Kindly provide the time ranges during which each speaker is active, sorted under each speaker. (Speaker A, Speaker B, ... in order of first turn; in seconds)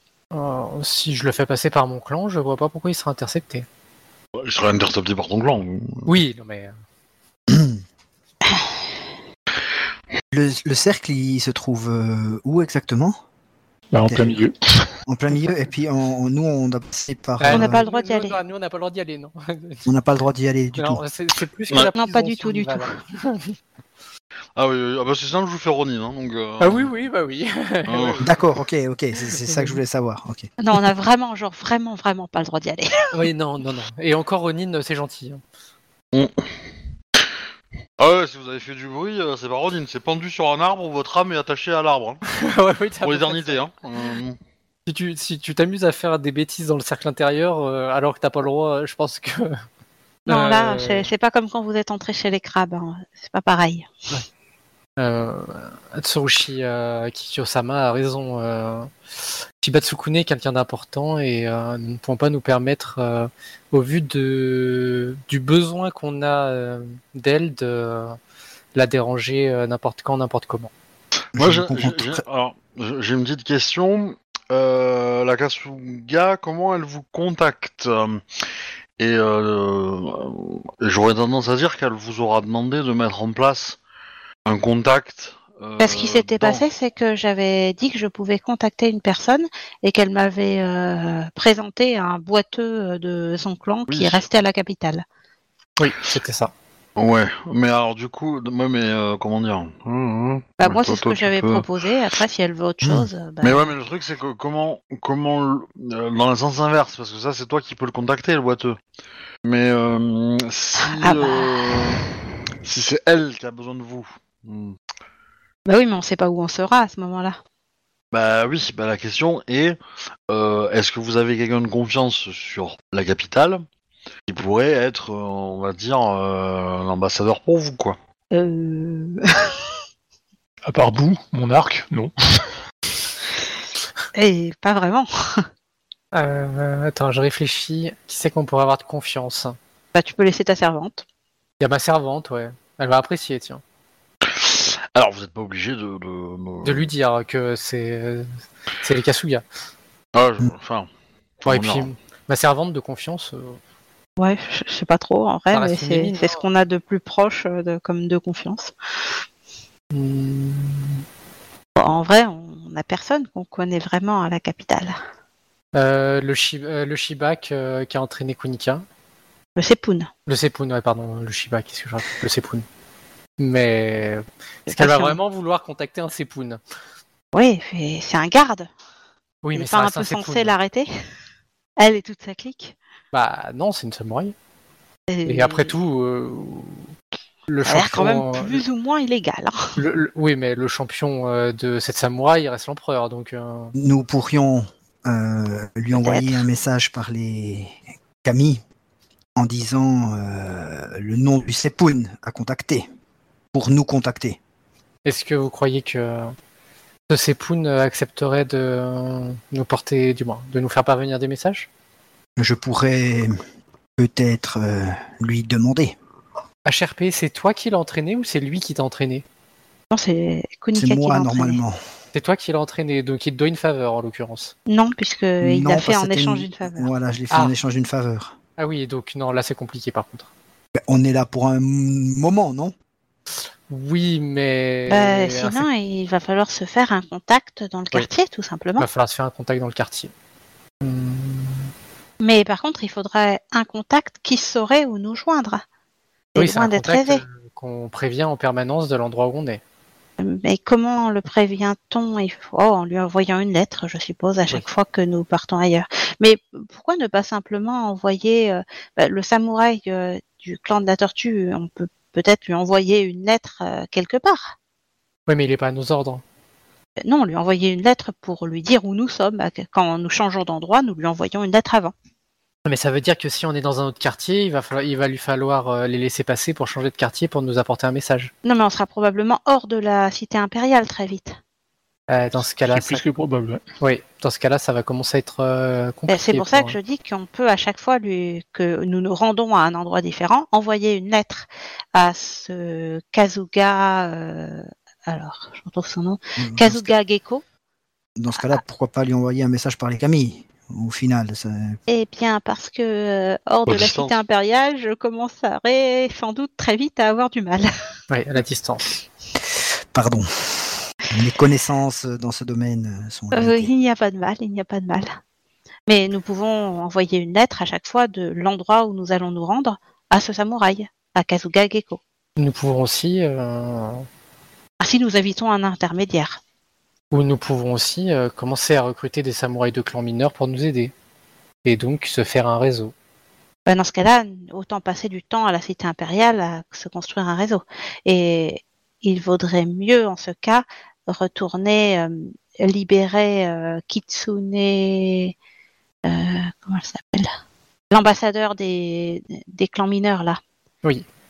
Speaker A: 0.3-3.6, 6.0-6.7, 17.4-19.9, 20.8-23.6, 26.6-28.3, 29.4-29.7, 33.1-35.4, 42.3-43.6, 44.9-49.6, 50.3-51.1, 55.0-58.9, 59.6-68.2, 68.7-70.7, 95.8-96.5, 136.1-139.6, 141.6-143.6, 146.6-148.3, 148.8-149.4, 151.4-153.6, 155.5-156.4, 159.9-161.0, 165.7-168.8, 170.3-172.7, 173.4-176.6, 179.4-180.5, 183.1-184.3, 185.2-186.9, 187.5-188.6, 189.8-193.7, 205.0-206.3, 207.1-211.7, 216.6-219.2, 222.1-224.5, 228.6-230.3, 233.7-235.7, 238.8-240.1, 240.8-241.7, 246.3-249.6, 265.3-266.2, 272.6-278.3, 282.1-283.0, 283.8-286.8, 308.1-309.0, 322.4-324.1, 327.1-330.9, 331.6-332.9
Speaker B: 4.3-6.1, 24.6-26.9, 27.9-28.3, 38.0-42.2, 43.0-44.4, 71.3-78.2, 79.0-83.8, 84.5-86.6, 93.9-94.2, 97.0-101.7, 102.9-108.8, 109.4-112.0, 112.6-114.8, 118.1-119.8, 120.3-123.6, 124.3-128.0, 144.2-146.9, 150.1-150.9, 151.4-151.9, 303.6-304.2
Speaker C: 7.5-7.8, 10.3-13.2, 14.1-14.4, 15.1-17.8, 19.9-21.0, 28.2-30.5, 71.3-72.2, 193.8-198.6, 199.3-202.8, 203.5-204.4, 212.4-213.3, 214.0-215.9, 220.7-221.8, 225.4-228.3, 230.7-232.7, 296.4-296.9, 298.2-301.8, 309.5-313.7
Speaker D: 13.9-14.6, 130.7-132.1, 282.7-283.6
Speaker E: 17.5-18.4, 21.9-22.9, 30.6-33.2, 50.3-53.9, 85.8-95.0, 100.6-103.7, 110.8-112.0, 115.7-117.4, 128.3-129.6, 134.1-135.4, 139.9-141.0, 154.2-158.7, 161.8-164.9, 169.6-170.1, 174.7-175.2, 177.3-178.7, 179.5-180.9, 181.8-182.7, 185.1-185.7, 187.6-189.8, 195.9-196.4, 219.9-221.6, 224.7-226.9, 234.9-238.9, 242.2-245.6, 246.3-247.2, 250.2-264.5, 267.0-271.9, 278.4-281.4, 286.1-297.4, 301.9-307.7, 313.3-315.1, 315.9-322.0, 324.8-326.4, 333.7-345.3, 346.1-347.3, 347.9-350.4